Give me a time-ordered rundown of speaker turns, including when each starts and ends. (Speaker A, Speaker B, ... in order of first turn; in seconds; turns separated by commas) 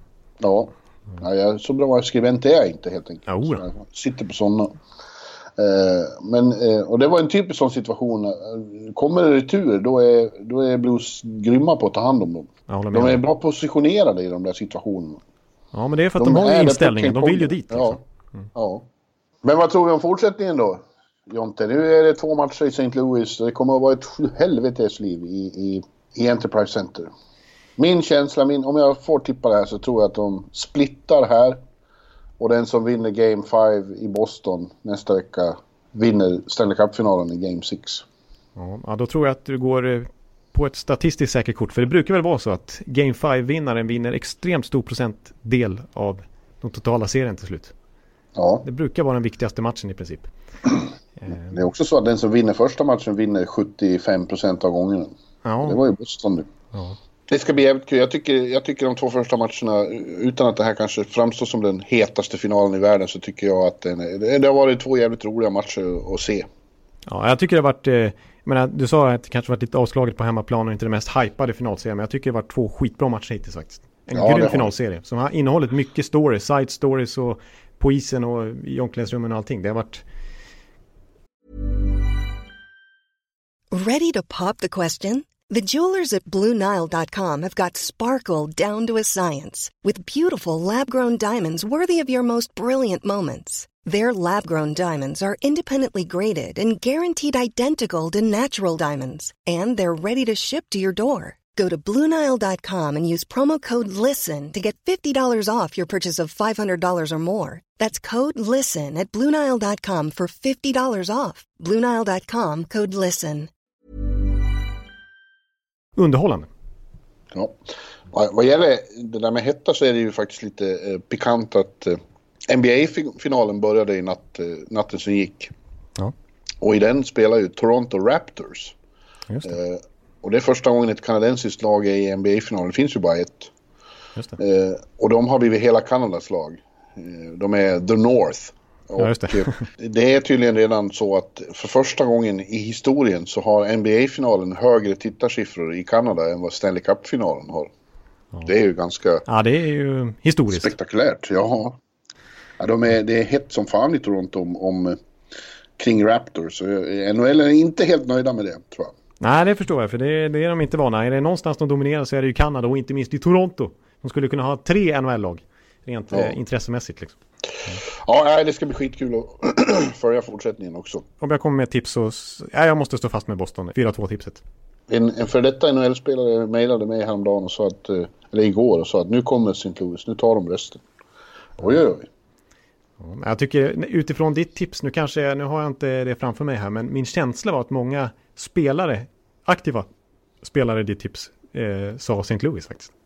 Speaker A: 0.4-4.8, Speaker B: 3.3-3.6, Speaker A: 5.6-15.2, Speaker B: 12.7-13.2, Speaker B: 15.7-18.0, Speaker A: 16.2-18.0, Speaker A: 18.6-18.9, Speaker A: 19.4-27.1, Speaker A: 27.8-31.6, Speaker A: 32.4-38.0, Speaker B: 38.6-47.7, Speaker A: 48.4-48.7, Speaker B: 48.6-50.3, Speaker B: 51.2-51.5, Speaker A: 51.3-56.5, Speaker B: 55.4-55.8, Speaker A: 57.3-66.5, Speaker B: 67.1-80.0, Speaker A: 74.2-74.7, Speaker C: 83.7-113.5, Speaker B: 116.0-116.5, Speaker A: 118.1-125.5, Speaker A: 126.6-128.8, Speaker B: 129.3-129.6, Speaker A: 129.4-133.5, Speaker A: 134.4-147.7, Speaker B: 139.0-139.6, Speaker A: 148.4-149.2, Speaker B: 149.3-150.8, Speaker A: 150.5-151.8, Speaker A: 152.6-155.0, Speaker A: 155.8-158.9, Speaker B: 159.2-167.2, Speaker A: 167.9-171.1, Speaker B: 171.2-174.4, Speaker A: 174.9-180.8, Speaker A: 181.6-182.1, Speaker B: 183.0-189.9, Speaker B: 190.4-192.9